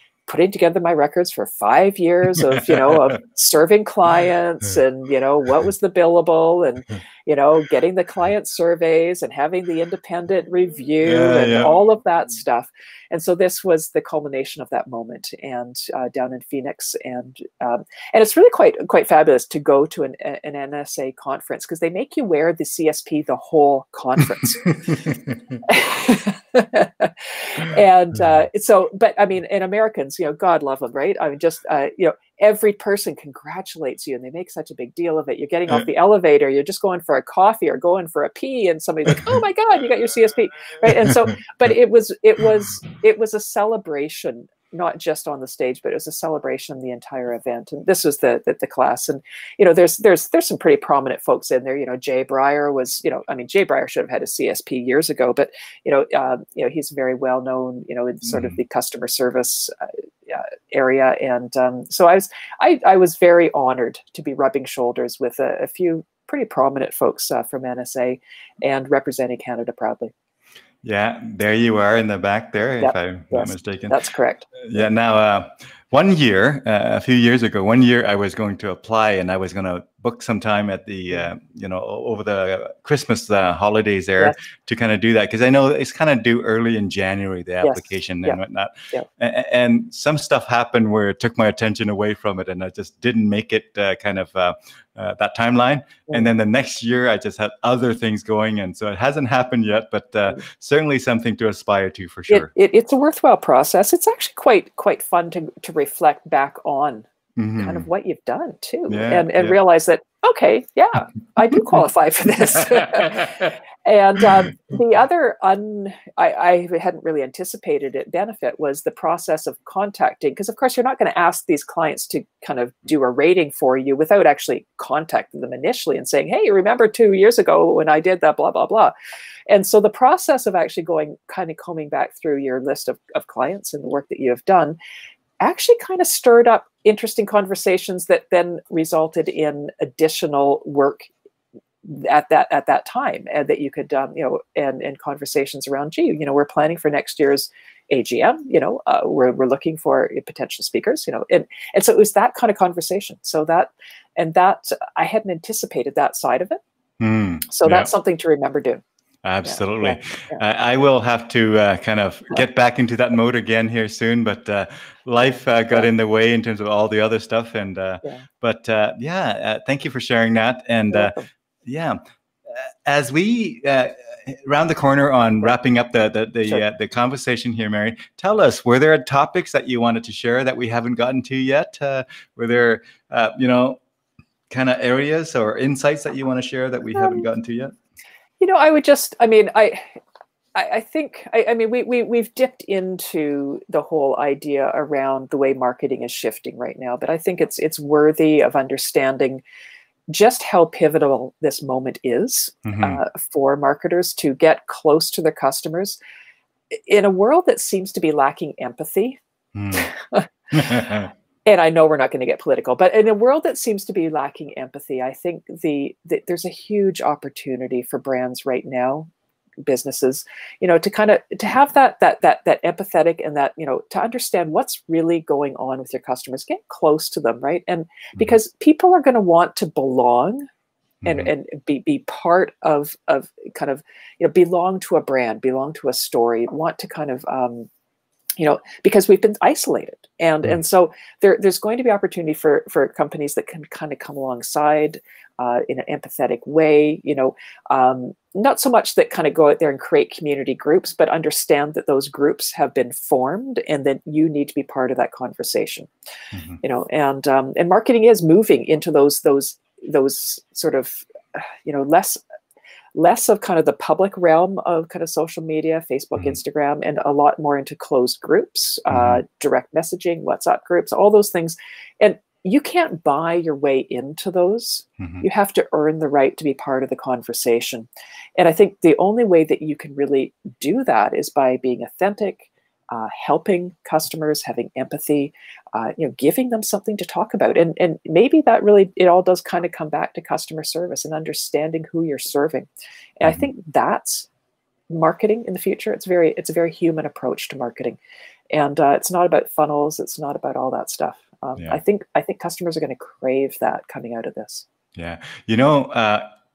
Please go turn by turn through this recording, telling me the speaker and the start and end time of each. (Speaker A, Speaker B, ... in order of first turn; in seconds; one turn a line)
Speaker A: 0.3-24.8
Speaker B: 2.4-3.2
Speaker B: 11.0-11.8
Speaker A: 25.6-59.7
Speaker B: 40.8-41.3
Speaker B: 58.2-58.6
Speaker A: 60.3-70.1
Speaker B: 70.8-74.0
Speaker A: 72.8-74.8
Speaker B: 74.6-102.5
Speaker A: 87.6-89.1
Speaker A: 102.3-107.0
Speaker B: 107.4-107.9
Speaker A: 107.6-128.9
Speaker B: 108.9-109.6
Speaker B: 112.7-113.5
Speaker A: 129.5-134.8
Speaker A: 135.4-141.1
Speaker A: 141.8-156.6
Speaker B: 157.0-157.9
Speaker A: 157.5-158.8
Speaker B: 159.2-172.0
Speaker A: 159.4-160.4
Speaker A: 165.2-165.9
Speaker A: 170.9-171.3
Speaker B: 172.5-183.8
Speaker B: 184.5-187.7
Speaker A: 186.9-187.3
Speaker A: 188.4-190.0
Speaker A: 190.5-199.4
Speaker A: 200.1-206.0
Speaker B: 202.6-203.0
Speaker A: 206.7-209.2
Speaker B: 209.5-209.9
Speaker A: 209.7-210.8
Speaker B: 210.5-211.1
Speaker A: 211.4-219.1
Speaker A: 219.6-230.5
Speaker B: 231.0-231.3
Speaker A: 231.1-237.7
Speaker A: 238.4-255.9
Speaker B: 256.3-256.6
Speaker A: 256.6-262.2
Speaker A: 262.9-292.7
Speaker B: 268.9-269.2
Speaker B: 275.0-275.2
Speaker A: 293.2-294.3
Speaker A: 294.9-298.0
Speaker A: 298.5-304.6
Speaker B: 304.9-306.3